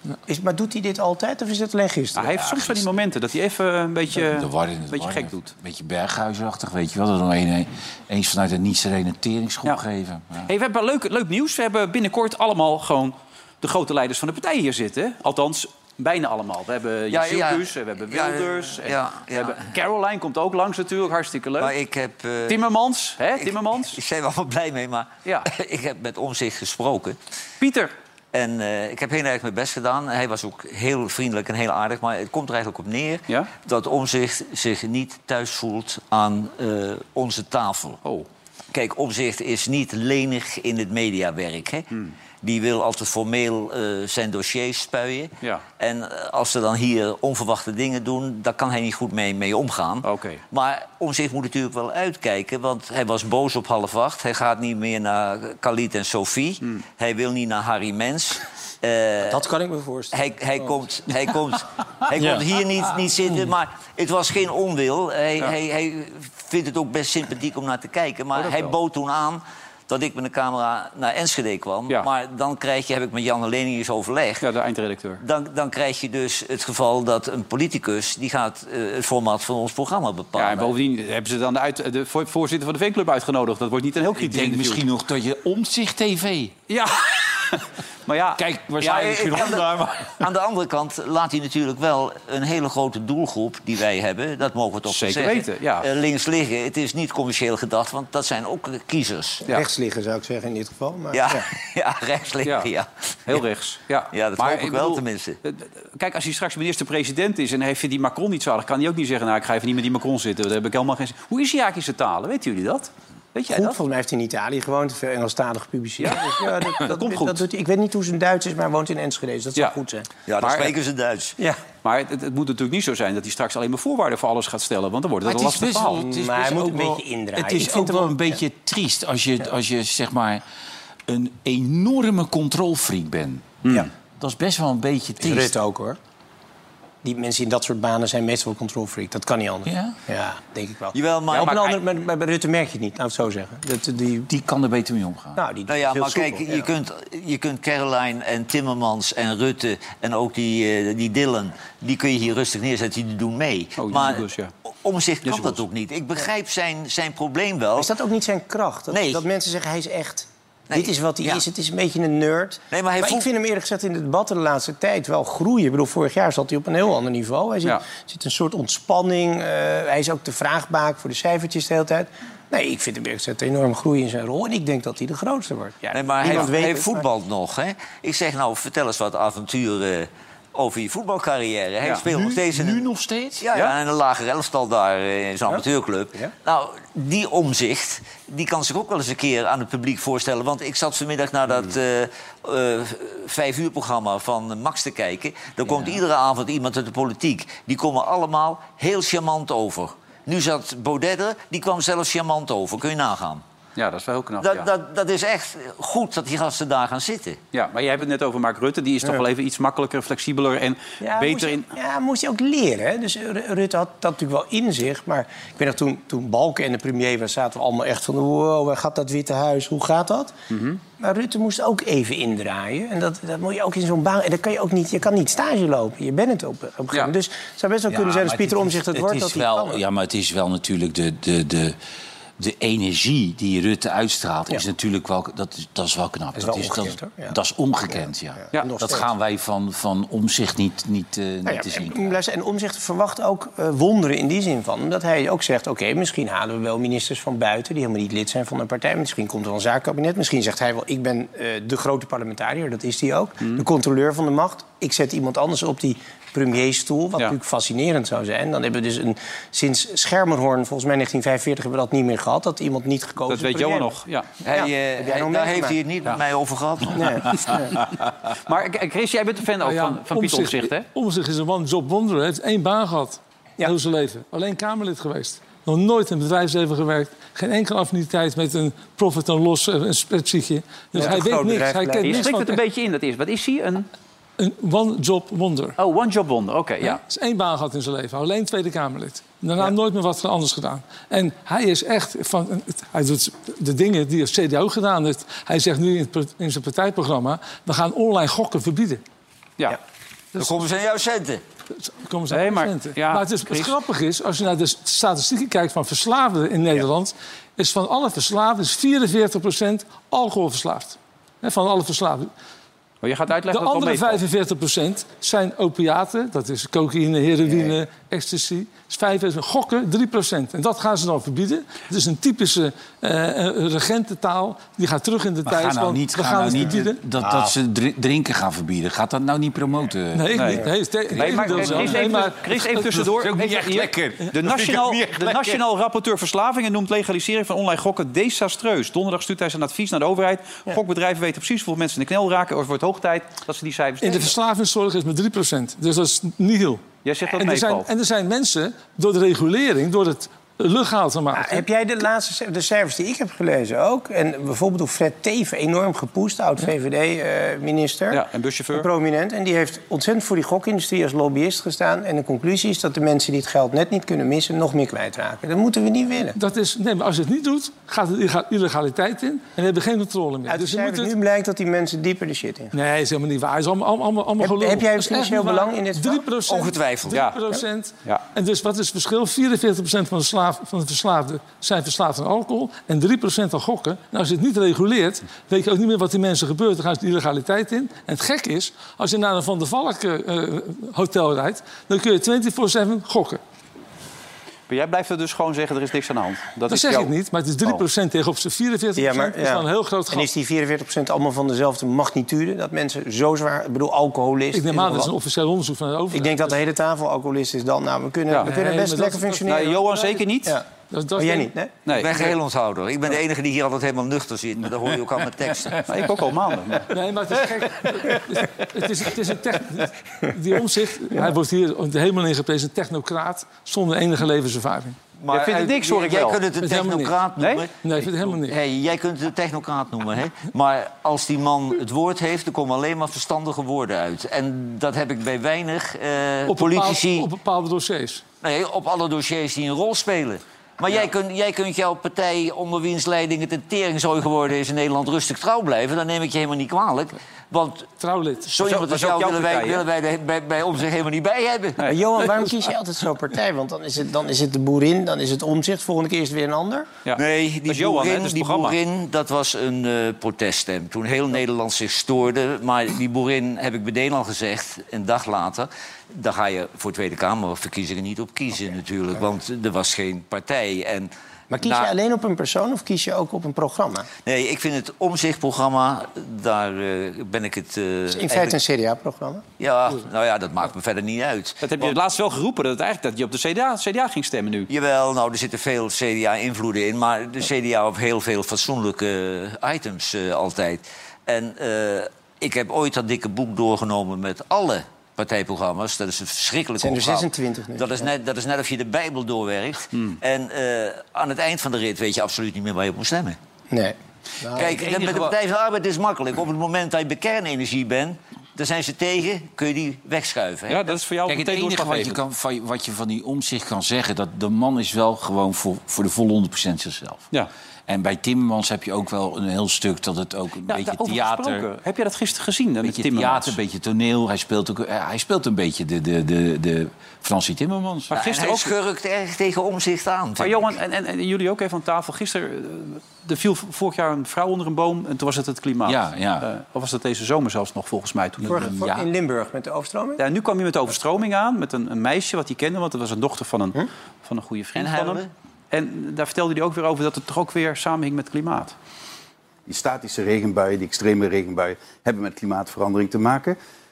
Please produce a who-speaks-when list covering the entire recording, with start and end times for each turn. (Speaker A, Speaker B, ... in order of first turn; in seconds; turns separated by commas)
Speaker A: 0.3-2.4, Speaker B: 2.1-5.5, Speaker C: 2.3-2.9, Speaker C: 4.2-10.5, Speaker B: 10.5-21.8, Speaker D: 17.1-19.7, Speaker D: 21.6-22.6, Speaker B: 22.5-24.0, Speaker D: 23.4-27.2, Speaker B: 27.6-27.9, Speaker D: 28.3-38.0, Speaker D: 38.7-41.9, Speaker D: 42.4-59.4, Speaker B: 50.0-50.4, Speaker A: 59.3-60.9, Speaker D: 60.1-74.4, Speaker B: 68.3-68.8, Speaker B: 74.4-75.2, Speaker D: 75.2-80.7, Speaker B: 80.3-84.8, Speaker C: 84.2-86.5, Speaker B: 86.7-89.3, Speaker C: 88.4-90.2, Speaker D: 88.9-99.4, Speaker B: 94.9-95.9, Speaker A: 99.5-101.5, Speaker D: 101.1-103.4, Speaker B: 102.4-102.7, Speaker B: 103.3-113.8, Speaker D: 104.1-105.4, Speaker A: 113.5-120.1, Speaker B: 116.0-117.4, Speaker D: 120.3-121.3, Speaker B: 120.4-120.7, Speaker B: 121.8-126.0, Speaker C: 125.2-130.4, Speaker A: 125.8-128.4, Speaker C: 131.1-133.6, Speaker C: 134.2-135.5, Speaker A: 135.2-136.0, Speaker A: 137.0-144.3, Speaker C: 139.7-139.9, Speaker D: 140.9-141.8, Speaker C: 144.3-145.4, Speaker A: 145.4-146.7, Speaker D: 145.7-154.2, Speaker B: 153.8-154.5, Speaker D: 154.8-157.9, Speaker B: 155.2-155.6, Speaker A: 157.8-177.1, Speaker D: 158.9-159.2, Speaker D: 160.7-161.4, Speaker D: 162.7-163.3, Speaker D: 175.9-182.9, Speaker C: 182.0-183.5, Speaker D: 183.4-203.4, Speaker B: 203.8-204.7, Speaker D: 204.4-207.4, Speaker B: 207.5-211.7, Speaker A: 211.0-220.3, Speaker B: 220.5-220.8, Speaker A: 221.0-229.8, Speaker C: 227.9-231.8, Speaker C: 232.4-242.2, Speaker A: 236.3-237.4, Speaker A: 237.9-239.1, Speaker A: 241.4-264.0, Speaker B: 263.3-264.3, Speaker D: 264.4-267.4, Speaker A: 264.5-265.8, Speaker A: 266.9-267.8, Speaker B: 268.4-270.9, Speaker E: 269.6-282.6, Speaker B: 281.0-281.3, Speaker A: 281.0-282.3, Speaker B: 282.0-283.9, Speaker E: 284.4-285.8, Speaker B: 285.8-287.0, Speaker E: 286.8-299.0, Speaker D: 300.4-301.4, Speaker E: 301.8-312.3, Speaker B: 302.3-303.8, Speaker B: 313.0-314.2, Speaker E: 313.5-327.0, Speaker C: 325.5-335.6, Speaker A: 327.2-327.5, Speaker E: 330.1-332.5, Speaker B: 330.3-344.4, Speaker E: 344.0-351.7, Speaker B: 347.1-347.9, Speaker A: 351.3-366.4, Speaker B: 358.1-358.9, Speaker E: 366.4-371.1, Speaker A: 370.5-372.7, Speaker E: 372.7-393.4, Speaker A: 374.4-376.3, Speaker D: 376.5-377.2, Speaker B: 377.1-377.4, Speaker B: 394.7-397.1, Speaker E: 396.7-400.3, Speaker A: 399.0-405.1, Speaker E: 404.5-406.6, Speaker A: 406.1-410.6, Speaker E: 408.4-409.4, Speaker B: 409.5-410.6, Speaker E: 410.9-411.5, Speaker A: 411.2-411.8, Speaker B: 411.9-412.3, Speaker D: 411.9-415.8, Speaker B: 415.9-416.9, Speaker E: 416.9-425.0, Speaker D: 425.2-437.3, Speaker B: 425.3-426.4, Speaker E: 426.6-427.2, Speaker B: 427.4-427.7, Speaker E: 427.8-428.6, Speaker E: 436.5-438.2, Speaker D: 438.4-447.9, Speaker E: 448.0-448.5, Speaker D: 448.4-451.9, Speaker B: 448.6-449.9, Speaker B: 451.8-452.1, Speaker A: 451.9-456.9, Speaker B: 457.1-458.8, Speaker D: 457.1-471.9, Speaker A: 471.5-474.1, Speaker D: 474.2-478.6, Speaker A: 478.1-479.4, Speaker D: 479.6-481.9, Speaker B: 481.6-484.7, Speaker D: 484.7-503.4, Speaker A: 496.8-498.1, Speaker A: 503.7-504.9, Speaker D: 504.5-510.9, Speaker B: 510.7-512.2, Speaker C: 511.3-517.3, Speaker C: 517.9-521.7, Speaker B: 520.7-523.6, Speaker C: 522.8-528.1, Speaker B: 528.1-528.8, Speaker D: 528.1-530.6, Speaker B: 530.4-538.6, Speaker C: 535.9-536.5, Speaker C: 538.4-539.1, Speaker A: 538.5-540.2, Speaker B: 540.2-548.8, Speaker D: 544.8-545.3, Speaker F: 549.7-553.6